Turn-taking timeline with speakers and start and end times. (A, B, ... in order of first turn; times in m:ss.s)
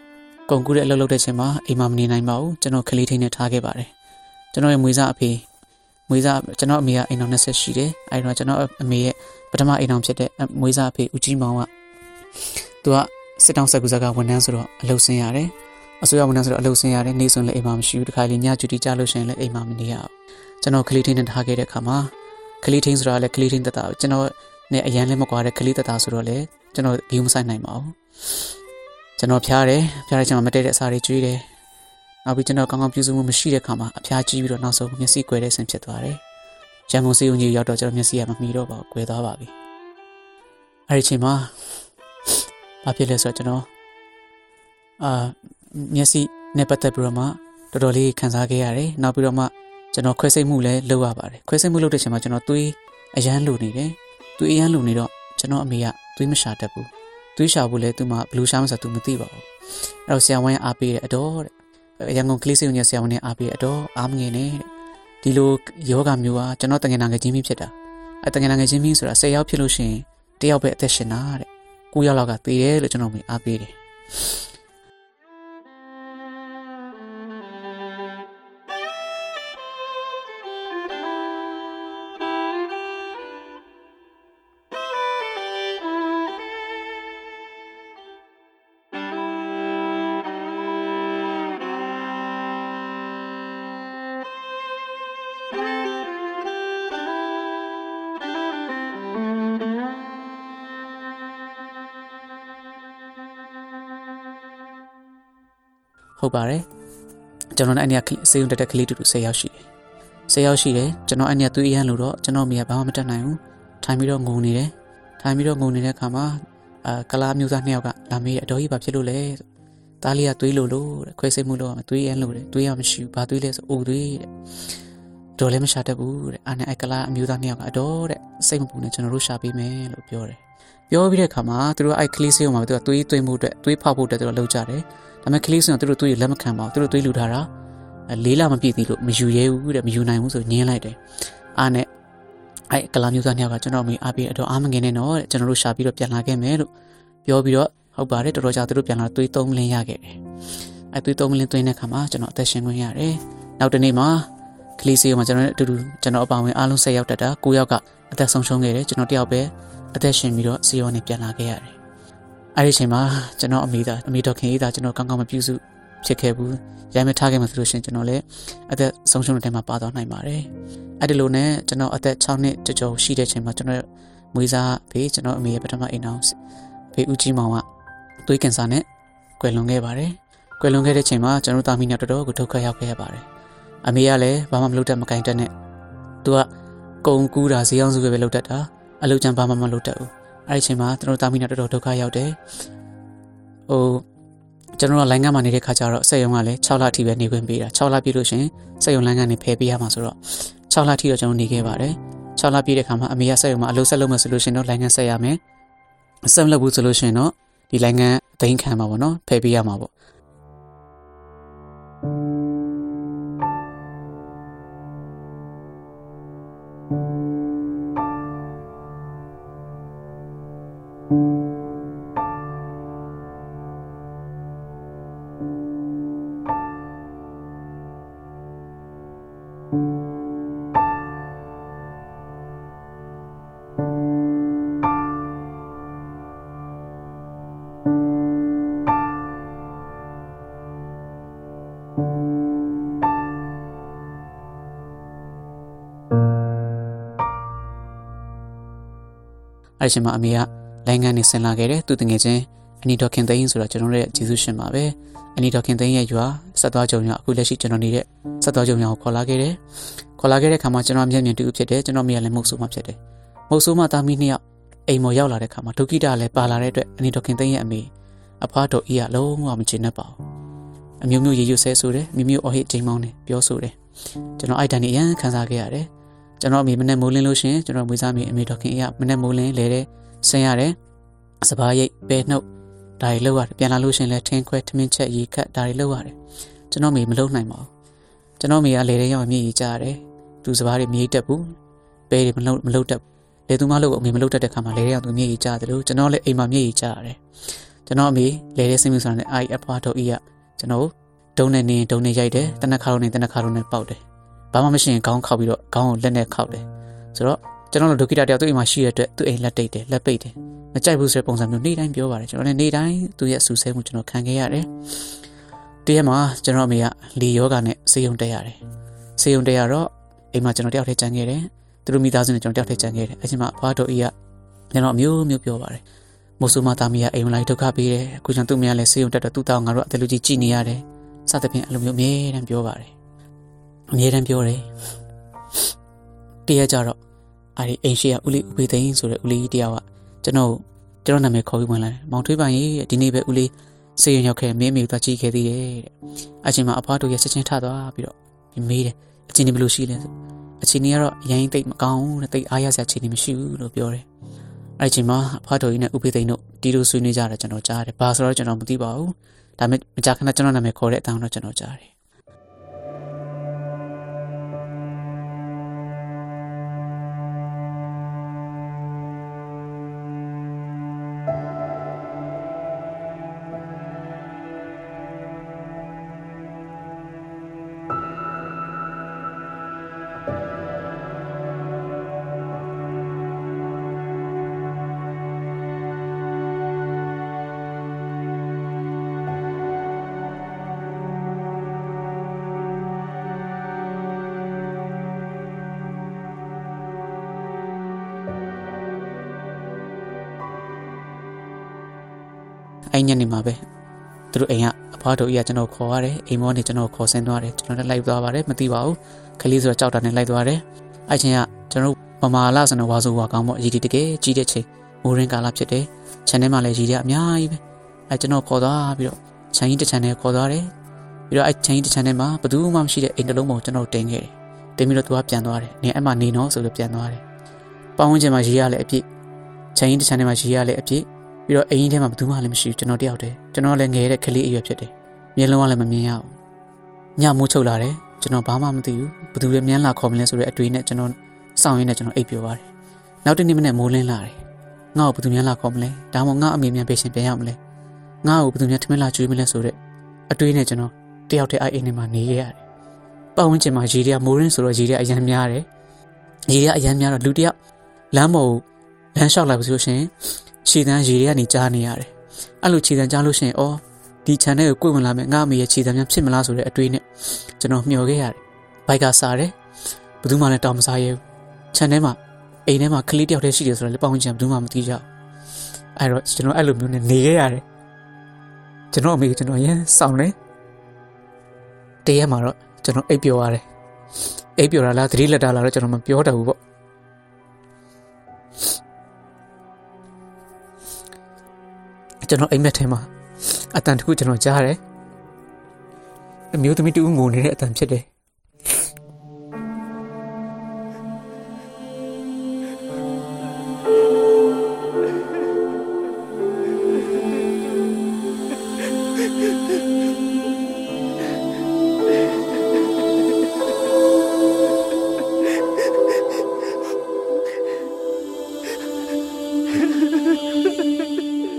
0:00.5-0:03.9 A
0:04.5-0:05.4 A
0:06.1-0:11.7 A
0:12.8-0:28.4 A
0:29.2-0:31.5 A
0:32.2-0:36.2 A
0:36.9-0:39.5 A
0:40.9-0:41.5 A
0:42.8-0:43.7 A
0:45.0-0:59.5 A
1:00.1-1:04.7 A
1:05.2-1:14.4 A
1:46.2-1:46.6 A
1:47.6-1:49.6 A
1:50.3-1:59.4 A
2:00.0-2:04.3 A
2:05.4-2:17.5 A
2:18.1-2:21.0 A
2:21.6-2:21.9 A
2:22.7-2:26.7 A
2:27.2-2:30.2 A
2:30.9-2:41.8 A
2:42.6-2:50.5 A
2:51.0-2:56.4 A
2:56.9-2:57.7 A
2:58.2-2:58.9 A
2:59.4-3:03.3 A
3:03.8-3:05.5 A
3:06.2-3:06.5 A
3:07.0-3:12.4 A
3:13.7-3:14.1 A
3:14.8-3:25.4 A
3:26.3-3:29.9 A
4:09.8-4:19.6 A
4:20.2-4:23.0 A
4:23.5-4:30.2 A
4:31.0-4:33.8 A
4:34.4-4:35.9 A
4:36.4-4:40.8 A
4:41.4-4:42.4 A
4:43.0-4:46.2 A
4:46.7-4:47.7 A
4:48.4-4:51.5 A
4:52.1-4:57.2 A
4:57.9-5:15.2 A
5:15.8-5:18.6 A
5:19.2-5:24.1 A
5:24.7-5:25.8 A
5:26.4-5:32.9 A
5:33.9-5:34.7 A
5:36.5-5:37.0 A
5:37.6-5:54.1 A
5:54.8-6:01.9 A
6:42.9-6:43.6 A
6:44.3-7:00.7 A
7:01.3-7:07.2 A
7:08.0-7:09.0 A
7:09.7-7:16.4 A
7:17.2-7:22.7 A
7:23.2-7:24.4 A
7:24.9-7:27.6 A
7:28.2-7:29.8 A
7:30.3-7:32.6 A
7:33.4-7:35.7 A
7:36.5-7:37.5 A
7:38.1-7:49.6 A
7:50.2-7:55.1 A
7:56.0-7:57.6 A
7:58.9-8:00.4 A
8:02.0-8:03.6 A
8:04.6-8:06.6 A
8:12.2-8:14.8 A
8:16.5-8:18.1 A